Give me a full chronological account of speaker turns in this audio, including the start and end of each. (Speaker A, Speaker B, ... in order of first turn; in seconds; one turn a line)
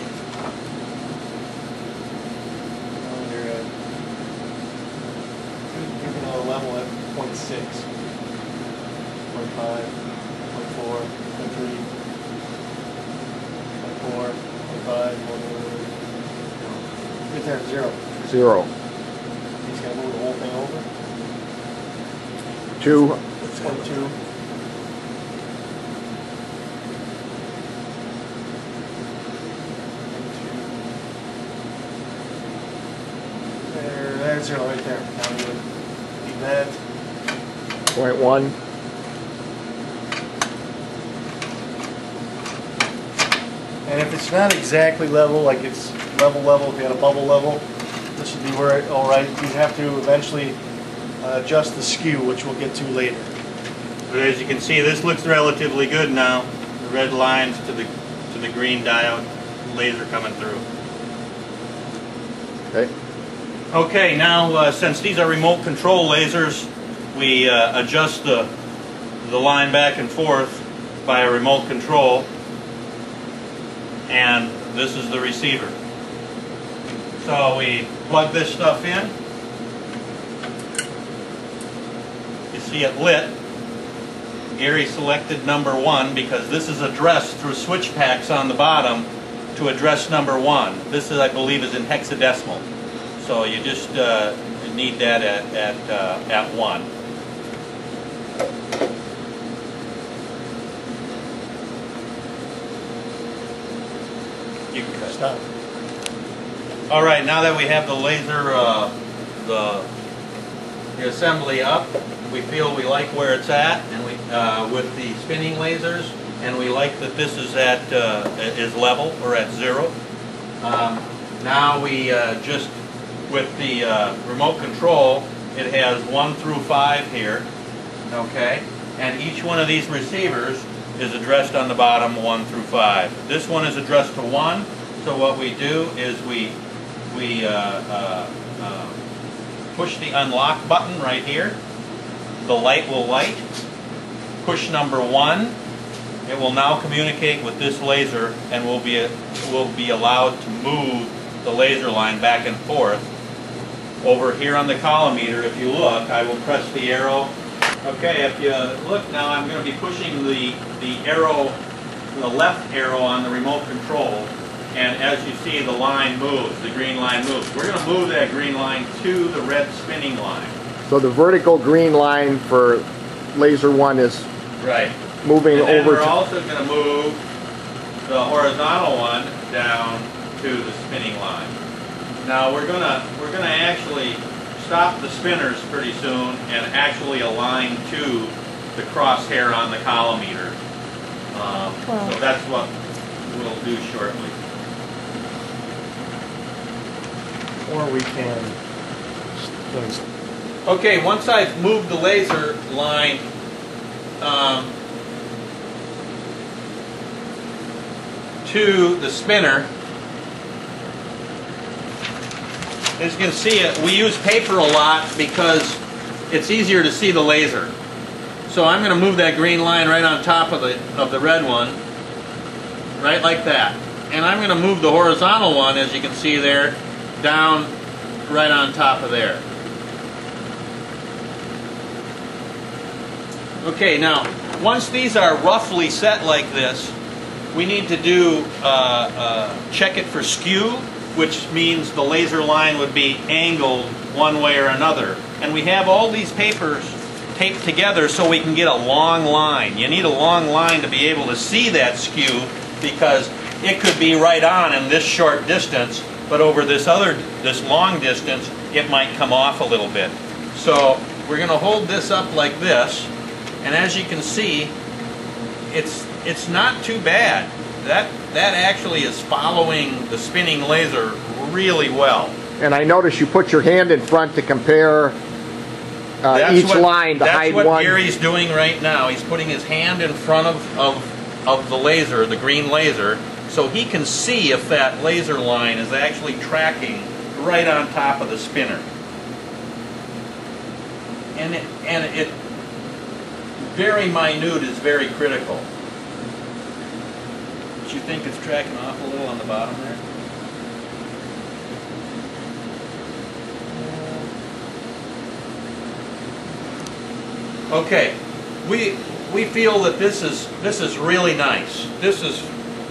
Speaker A: 2.9-3.7
Speaker A: 5.7-7.8
Speaker A: 9.3-9.9
Speaker A: 10.5-11.8
Speaker A: 13.8-15.9
Speaker A: 16.6-18.2
Speaker B: 18.2-18.7
Speaker A: 19.6-20.9
Speaker B: 22.8-23.2
Speaker A: 22.9-24.1
Speaker A: 30.1-30.7
Speaker A: 33.7-35.6
Speaker A: 36.2-36.8
Speaker B: 37.9-38.5
Speaker A: 43.9-47.6
Speaker A: 48.2-50.6
Speaker A: 51.2-53.3
Speaker C: 54.1-60.6
Speaker C: 63.7-68.5
Speaker C: 69.2-72.3
Speaker C: 74.1-75.8
Speaker C: 77.2-79.1
Speaker C: 82.5-83.3
Speaker C: 84.5-92.6
Speaker C: 93.2-96.9
Speaker C: 104.7-105.2
Speaker A: 105.1-105.4
Speaker C: 106.9-108.9
Speaker C: 109.4-109.9
Speaker C: 111.0-119.9
Speaker C: 120.6-122.7
Speaker C: 123.3-127.5
Speaker C: 128.1-136.6
Speaker C: 137.1-139.0
Speaker C: 139.7-141.6
Speaker C: 142.4-143.4
Speaker C: 144.4-145.6
Speaker C: 146.3-153.1
Speaker C: 154.0-157.3
Speaker C: 157.8-161.6
Speaker C: 162.1-170.5
Speaker B: 170.9-174.3
Speaker C: 174.6-174.9
Speaker B: 175.2-176.1
Speaker C: 175.5-177.2
Speaker C: 178.1-181.5
Speaker C: 182.2-190.6
Speaker C: 191.3-192.7
Speaker C: 193.2-194.3
Speaker A: 197.7-198.6
Speaker A: 199.4-200.0
Speaker C: 200.7-203.2
Speaker C: 204.2-204.7
Speaker C: 208.4-209.7
Speaker C: 213.0-215.8
Speaker C: 216.3-217.7
Speaker C: 218.5-221.8
Speaker C: 223.0-227.7
Speaker C: 228.3-229.4
Speaker C: 233.6-236.9
Speaker C: 237.5-263.1
Speaker C: 263.6-264.7
Speaker C: 265.7-272.4
Speaker B: 272.6-275.2
Speaker B: 276.2-278.0
Speaker C: 276.3-288.9
Speaker C: 291.4-292.3
Speaker C: 293.6-295.6
Speaker C: 297.8-300.0
Speaker A: 303.9-304.1
Speaker C: 307.7-312.5